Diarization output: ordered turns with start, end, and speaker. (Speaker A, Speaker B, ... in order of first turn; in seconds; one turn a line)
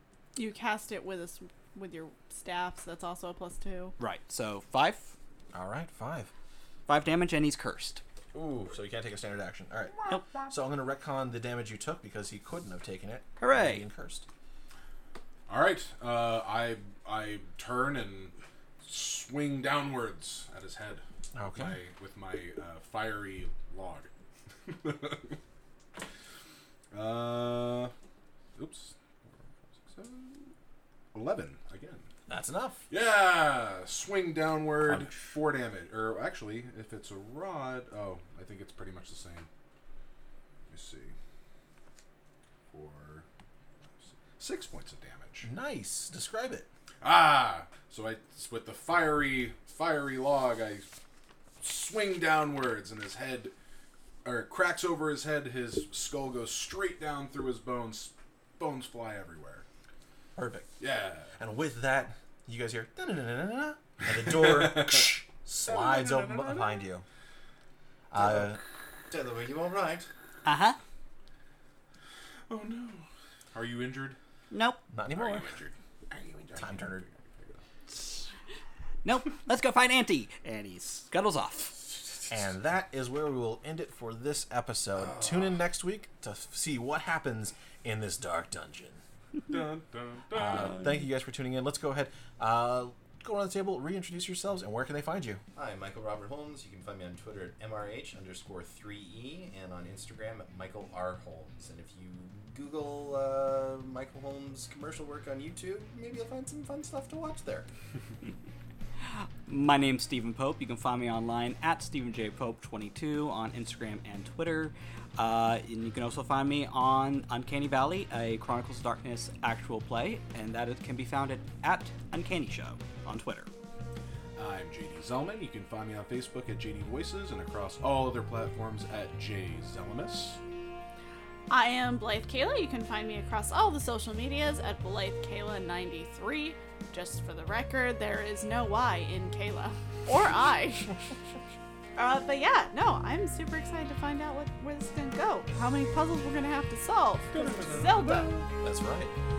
Speaker A: 0.3-4.0
Speaker B: 4.0-5.2
Speaker C: 5.5-6.3
Speaker B: 6.9-8.0
Speaker C: 8.3-14.3
Speaker B: 13.4-13.8
Speaker D: 15.5-24.1
Speaker C: 21.3-21.8
Speaker D: 24.7-25.4
Speaker D: 26.9-27.9
Speaker D: 28.6-30.5
Speaker D: 31.1-32.1
Speaker C: 32.3-32.8
Speaker D: 32.9-39.5
Speaker C: 34.9-35.2
Speaker D: 40.7-41.1
Speaker D: 42.7-43.2
Speaker D: 44.0-45.5
Speaker C: 45.4-46.7
Speaker D: 47.0-50.9
Speaker D: 51.6-53.5
Speaker D: 54.2-59.6
Speaker C: 60.4-60.7
Speaker D: 60.8-61.4
Speaker C: 61.4-67.0
Speaker D: 64.3-66.9
Speaker C: 68.1-68.6
Speaker E: 69.1-70.1
Speaker B: 70.4-70.8
Speaker D: 72.5-74.2
Speaker B: 74.5-74.8
Speaker C: 74.9-75.5
Speaker D: 75.1-77.6
Speaker C: 76.6-77.0
Speaker B: 77.9-78.2
Speaker B: 79.0-81.8
Speaker C: 82.3-89.0
Speaker D: 89.5-90.8
Speaker C: 90.3-95.4
Speaker E: 95.5-107.7
Speaker B: 109.5-123.5
Speaker D: 124.4-130.4
Speaker A: 131.5-141.0
Speaker A: 142.0-148.3
Speaker D: 147.3-148.5
Speaker C: 148.6-149.1